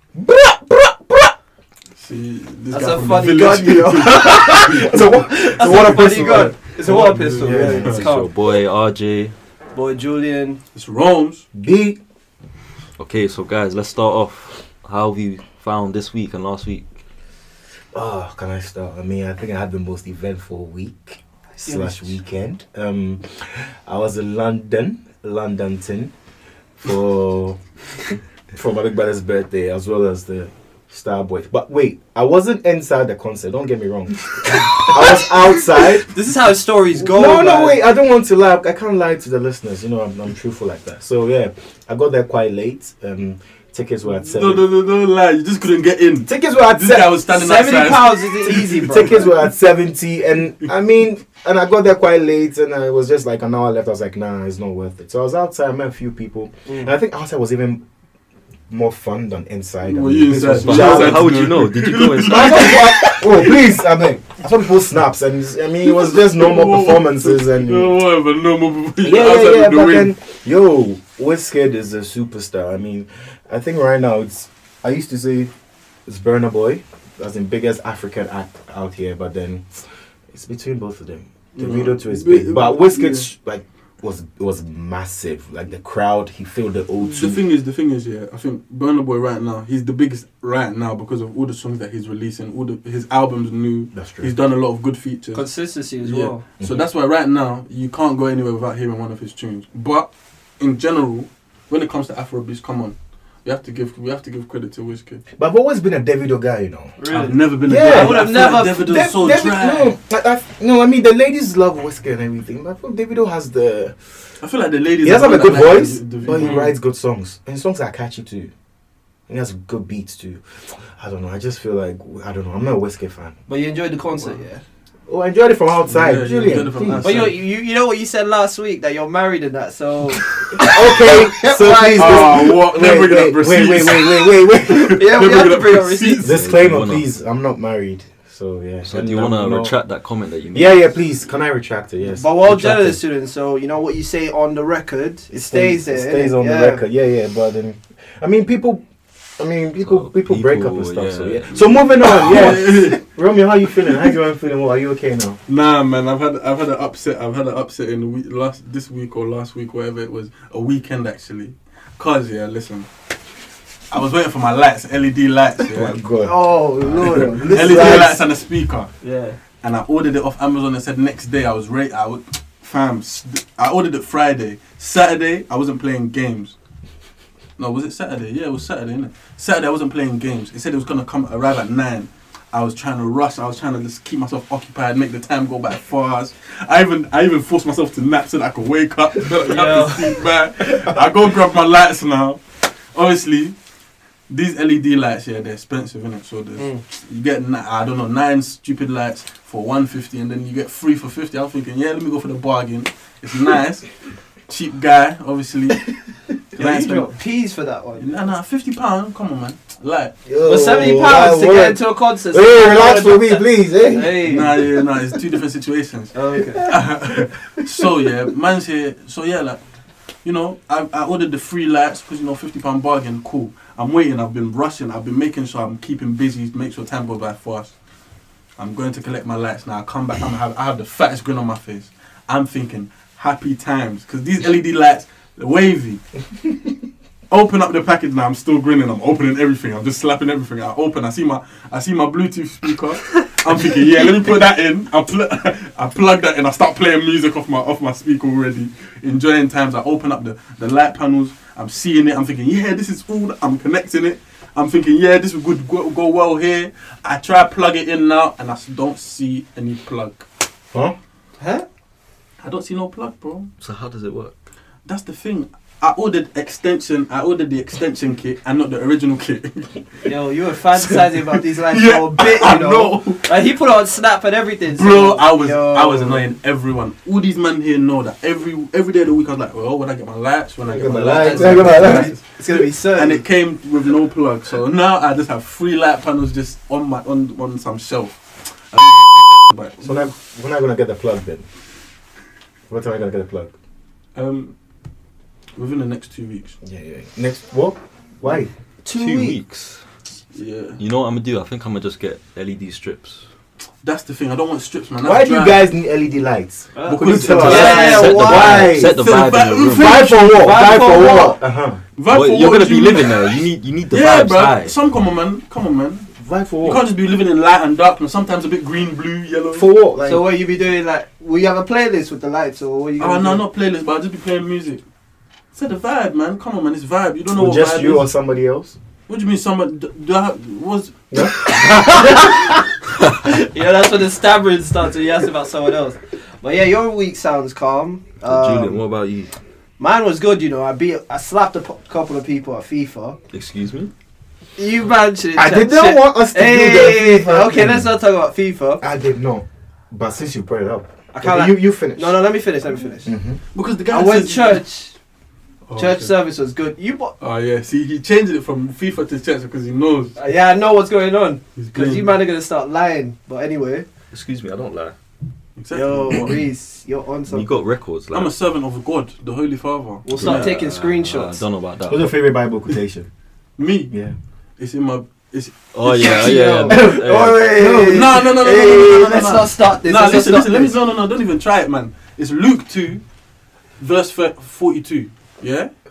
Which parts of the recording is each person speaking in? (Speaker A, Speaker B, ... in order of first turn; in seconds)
Speaker A: 0.1-1.3, 4.0-8.1, 11.5-12.0, 17.9-26.1, 26.8-27.6, 28.5-36.1, 37.0-44.6, 46.2-47.1, 48.5-57.8, 58.7-61.5, 62.2-67.9, 69.0-75.5, 76.0-87.4, 93.9-94.3, 105.3-114.2, 115.0-118.5, 119.3-123.3, 125.1-127.2, 130.6-135.0, 136.2-139.8, 140.5-143.0, 145.3-148.8, 149.4-155.4, 165.7-168.2, 206.5-207.1, 210.2-214.8, 280.6-282.1, 289.8-291.4, 292.7-293.5, 296.6-298.5, 305.0-308.9, 309.7-311.8, 316.1-316.8, 319.5-320.3, 327.3-328.8, 331.1-331.4, 345.3-347.9, 348.8-352.2, 353.0-353.4, 371.9-373.1, 373.9-374.1, 376.7-378.3
Speaker B: 1.9-8.0, 10.7-11.4, 44.0-49.2, 59.8-63.6, 65.8-70.1, 81.5-83.3, 87.0-95.5, 96.0-105.2, 107.1-110.0, 114.4-116.8, 125.8-127.4, 131.9-136.3, 152.0-153.1, 153.9-154.2, 155.4-162.9, 163.9-166.0, 166.9-168.9, 169.6-176.6, 177.6-193.6, 194.3-203.9, 204.5-205.9, 206.6-207.1, 208.0-210.1, 214.2-219.6, 220.2-227.7, 228.6-236.0, 237.3-260.2, 262.4-263.5, 264.8-270.1, 270.7-273.4, 274.7-290.1, 294.1-294.5, 295.6-296.6, 300.3-300.8, 303.8-305.7, 306.8-308.1, 308.8-310.7, 311.9-316.1, 316.6-319.6, 323.0-324.8, 325.5-328.1, 329.1-330.9, 331.5-332.0, 353.5-354.6, 355.7-356.1, 357.2-360.2, 361.6-362.2, 365.6-366.3, 368.1-370.5, 373.6-373.9, 374.6-375.6, 377.9-383.0, 383.8-385.7
Speaker C: 2.7-4.5, 5.6-8.3, 9.7-10.6, 21.5-22.2, 36.0-37.8, 47.3-49.3, 56.7-56.9, 95.3-96.4, 107.0-109.1, 123.5-124.6, 126.9-132.5, 134.8-136.3, 142.1-146.8, 166.2-168.1, 169.0-169.4, 189.3-190.2, 196.6-196.8, 206.7-208.1, 210.4-214.5, 216.1-216.7, 261.4-261.6, 270.1-276.2, 281.2-283.2, 298.8-299.4, 306.8-308.8, 310.4-311.4, 320.0-323.4, 331.7-332.4, 333.2-338.8, 339.8-343.1, 344.6-348.8, 351.1-353.1, 353.9-354.9, 355.8-357.1, 360.2-363.9, 365.7-367.5, 370.0-371.4, 375.8-380.8
Speaker D: 7.8-9.3, 13.0-16.9, 60.5-62.7, 136.2-137.1, 138.8-140.9, 149.8-152.0, 263.6-264.4, 298.9-299.8, 300.8-303.2, 307.3-310.0, 312.1-314.8, 338.2-339.3, 343.3-343.9, 364.1-364.9, 367.3-368.3, 370.1-372.1, 375.7-377.4